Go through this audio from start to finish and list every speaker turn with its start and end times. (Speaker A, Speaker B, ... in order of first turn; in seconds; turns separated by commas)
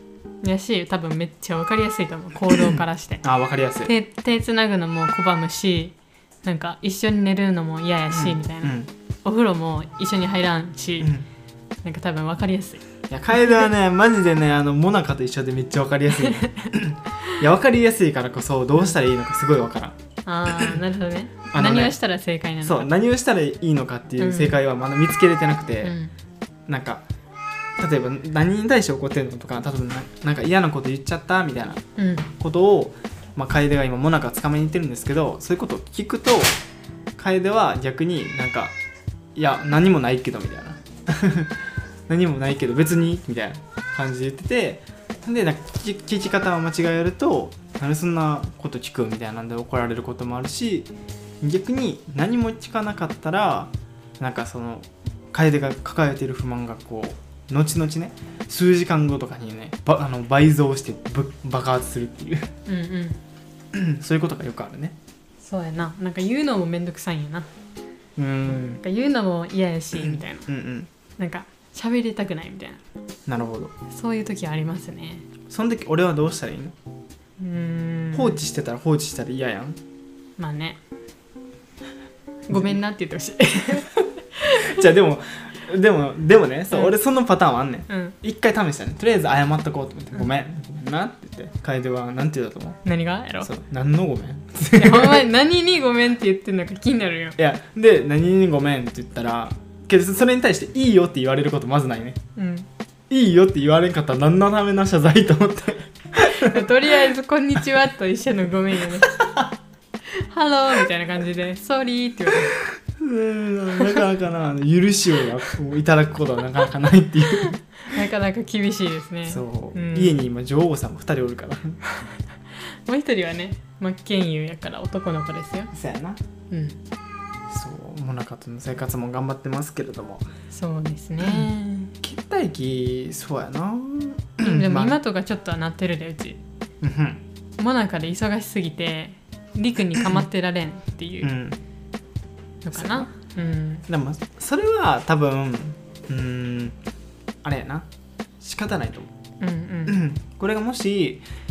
Speaker A: 0.4-3.2, Speaker B: 2.5-3.9, Speaker A: 3.8-11.1, Speaker B: 8.1-8.9, Speaker B: 11.0-11.3, Speaker A: 11.8-12.8, Speaker B: 13.1-19.9, Speaker A: 16.2-16.7, Speaker A: 20.2-22.9, Speaker B: 21.5-21.9, Speaker B: 22.6-25.9, Speaker A: 24.2-24.6, Speaker A: 25.8-26.1, Speaker B: 26.7-27.0, Speaker B: 27.8-31.8, Speaker A: 31.9-32.3, Speaker B: 32.4-36.6, Speaker B: 37.2-38.7, Speaker B: 39.4-62.5, Speaker A: 62.7-63.2, Speaker B: 63.7-65.0, Speaker A: 65.4-67.5, Speaker B: 68.2-68.8, Speaker A: 68.5-70.5, Speaker B: 69.9-70.9, Speaker A: 71.2-72.8, Speaker B: 73.3-73.7, Speaker A: 73.9-75.2, Speaker B: 75.5-76.7, Speaker A: 77.4-78.4, Speaker B: 78.1-79.8, Speaker A: 80.4-80.8, Speaker A: 82.5-84.8, Speaker B: 84.5-92.8, Speaker A: 87.9-88.2, Speaker A: 92.8-93.5, Speaker B: 93.4-95.2, Speaker A: 94.7-97.4, Speaker B: 97.4-102.2, Speaker A: 102.3-102.7, Speaker B: 103.1-106.9, Speaker A: 106.3-109.3, Speaker B: 108.9-109.5, Speaker A: 110.0-112.5, Speaker B: 113.0-117.6, Speaker A: 113.8-114.0, Speaker A: 117.8-120.2, Speaker B: 119.3-121.8, Speaker A: 121.8-125.7, Speaker B: 125.7-126.2, Speaker A: 126.5-126.8, Speaker B: 127.5-130.3, Speaker A: 130.5-131.9, Speaker B: 131.2-131.5, Speaker B: 132.0-135.0, Speaker A: 134.4-136.4, Speaker B: 136.8-137.2, Speaker A: 137.6-141.3, Speaker B: 141.2-141.6, Speaker A: 142.6-143.9, Speaker B: 142.7-143.1, Speaker B: 143.9-146.8, Speaker B: 147.4-147.9, Speaker B: 148.4-149.1, Speaker A: 149.4-150.0, Speaker B: 149.9-151.2